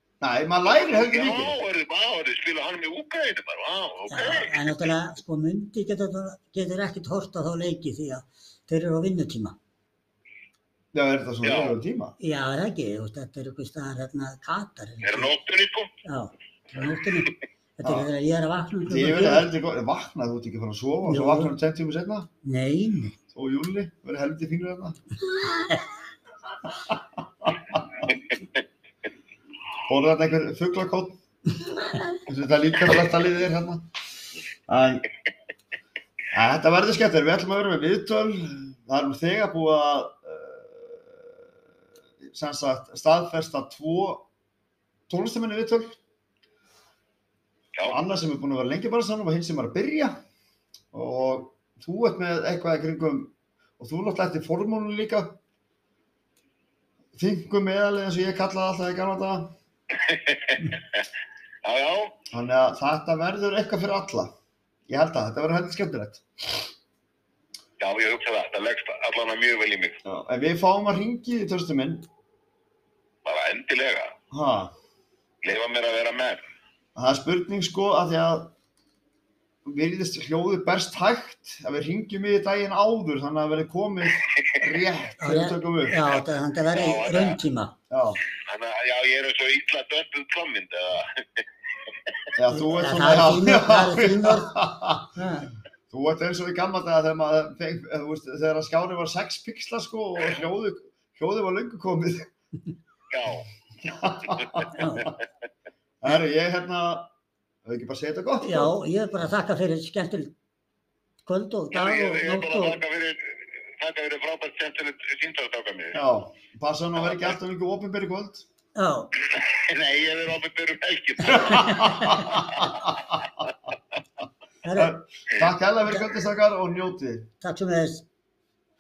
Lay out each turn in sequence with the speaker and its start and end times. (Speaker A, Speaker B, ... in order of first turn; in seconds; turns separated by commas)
Speaker A: 0.2-1.6, Speaker B: 0.7-4.9, Speaker C: 4.1-9.6, Speaker A: 10.9-12.2, Speaker B: 11.4-11.8, Speaker C: 12.2-15.3, Speaker B: 15.0-15.9, Speaker C: 16.1-19.5, Speaker A: 18.9-22.3, Speaker C: 21.0-21.5, Speaker C: 22.4-23.2, Speaker A: 23.3-25.0, Speaker C: 25.5-25.8, Speaker A: 26.7-27.8, Speaker A: 29.9-31.2, Speaker A: 32.3-33.9, Speaker A: 34.7-35.0, Speaker A: 36.3-41.4, Speaker A: 42.3-44.3, Speaker A: 45.1-46.0, Speaker A: 47.9-50.2, Speaker A: 50.9-55.4, Speaker A: 57.2-59.5, Speaker B: 60.0-61.0, Speaker B: 61.6-62.2, Speaker A: 62.3-64.3, Speaker A: 64.9-66.7, Speaker B: 67.8-70.0, Speaker A: 70.1-72.1, Speaker B: 73.2-74.2, Speaker A: 74.3-74.7, Speaker B: 75.4-76.5, Speaker A: 77.0-78.5, Speaker A: 79.7-86.0, Speaker B: 84.3-84.7, Speaker C: 85.2-87.7, Speaker B: 86.7-87.4, Speaker A: 87.9-88.2, Speaker B: 88.3-91.5, Speaker A: 92.4-95.1, Speaker C: 92.5-94.6, Speaker C: 95.2-95.5, Speaker A: 95.9-102.3, Speaker B: 103.1-103.5, Speaker A: 103.8-105.1, Speaker C: 104.7-105.1, Speaker A: 106.0-107.1, Speaker A: 107.7-108.7, Speaker C: 108.4-110.3, Speaker C: 111.3-112.8, Speaker B: 111.7-116.0, Speaker A: 115.9-118.5, Speaker B: 117.1-117.3, Speaker C: 118.8-119.1, Speaker B: 119.3-123.0, Speaker C: 121.3-122.4, Speaker A: 121.3-123.0, Speaker C: 124.6-125.0, Speaker A: 124.8-127.3, Speaker C: 127.4-128.1